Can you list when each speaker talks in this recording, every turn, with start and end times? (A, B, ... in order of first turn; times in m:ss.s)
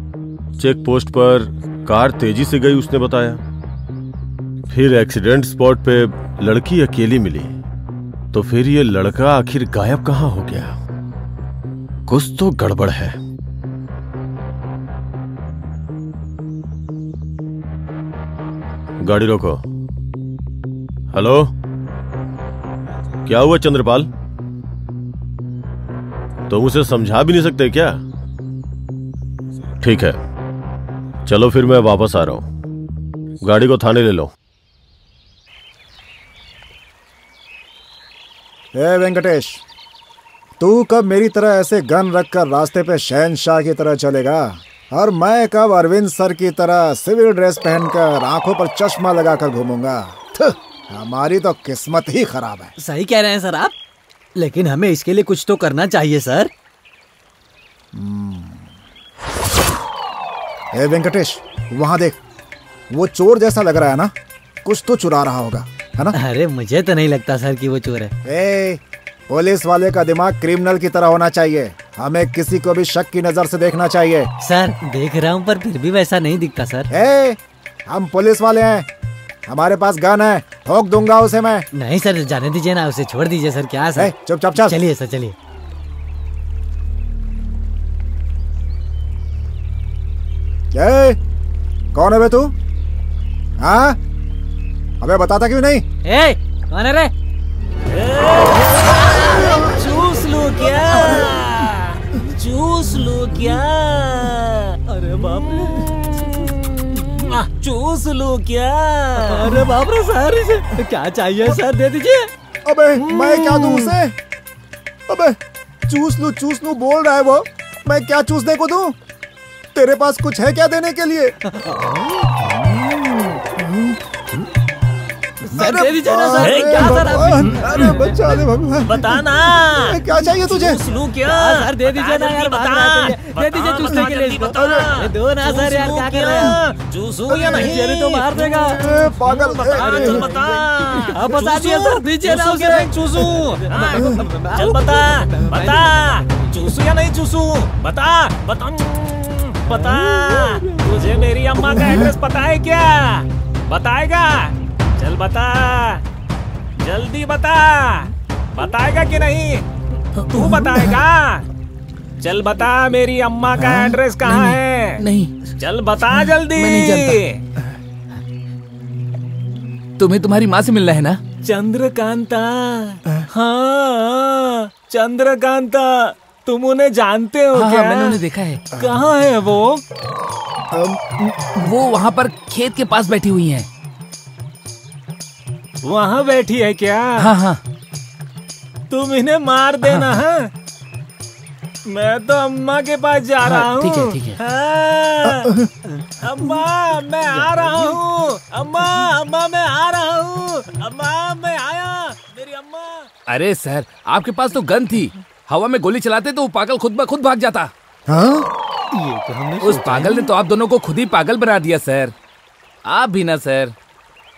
0:00.6-0:03.4 A
0:04.7-0:07.6 A
0:08.3-0:10.8 A
0:12.1-0:13.2 A
0:19.0-0:19.6 A
0:21.1-0:21.5 A
0:23.2-0:24.1 A
0:26.5-0:28.0 A
0:29.8-0:30.2 A
0:31.2-0:32.4 A
0:33.4-0:34.3 A
0:38.7-0:39.6 B
0:40.6-0:52.7 B
0:52.8-0:53.7 C
0:54.4-0:56.5 C
0:57.9-0:58.7 B
1:00.7-1:02.2 B
1:02.9-1:04.1 B
1:04.6-1:06.2 B
1:06.1-1:08.1 C
1:08.2-1:14.3 B
1:14.4-1:16.9 C
1:16.9-1:18.9 B
1:19.5-1:21.7 B
1:21.7-1:25.3 C
1:24.0-1:24.8 B
1:30.7-1:31.2 B
1:31.9-1:32.5 B
1:33.6-1:34.0 B
1:35.0-1:35.8 B
1:36.0-1:37.1 C
1:37.9-1:44.8 D
1:44.9-1:45.9 C
1:47.2-1:49.5 D
1:49.2-1:52.3 C
1:52.6-1:54.1 B
1:53.0-1:53.9 C
1:55.1-1:59.0 B
1:59.7-2:01.4 B
2:01.4-2:03.4 C
2:05.4-2:08.2 C
2:05.5-2:10.8 B
2:06.4-2:07.6 D
2:08.9-2:36.0 D
2:11.2-2:16.6 C
2:17.3-2:18.8 C
2:18.8-2:20.3 B
2:19.8-2:20.3 C
2:21.0-2:25.7 C
2:36.8-2:39.6 D
2:40.2-2:40.9 E
2:40.3-2:41.4 D
2:42.2-2:45.0 D
2:43.6-2:45.3 E
2:45.6-2:47.4 D
2:46.5-2:47.2 E
2:50.0-2:51.2 E
2:51.4-2:58.2 D
2:57.5-2:58.6 E
2:58.7-2:59.8 D
3:00.7-3:01.4 B
3:01.6-3:03.7 E
3:05.8-3:07.3 D
3:07.2-3:07.6 E
3:08.9-3:10.5 D
3:09.8-3:10.2 E
3:11.9-3:15.6 D
3:13.4-3:14.4 E
3:16.2-3:23.1 D
3:17.3-3:18.0 C
3:23.3-3:27.7 E
3:28.1-3:28.5 B
3:28.9-3:30.3 C
3:29.6-3:32.1 E
3:32.8-3:33.7 E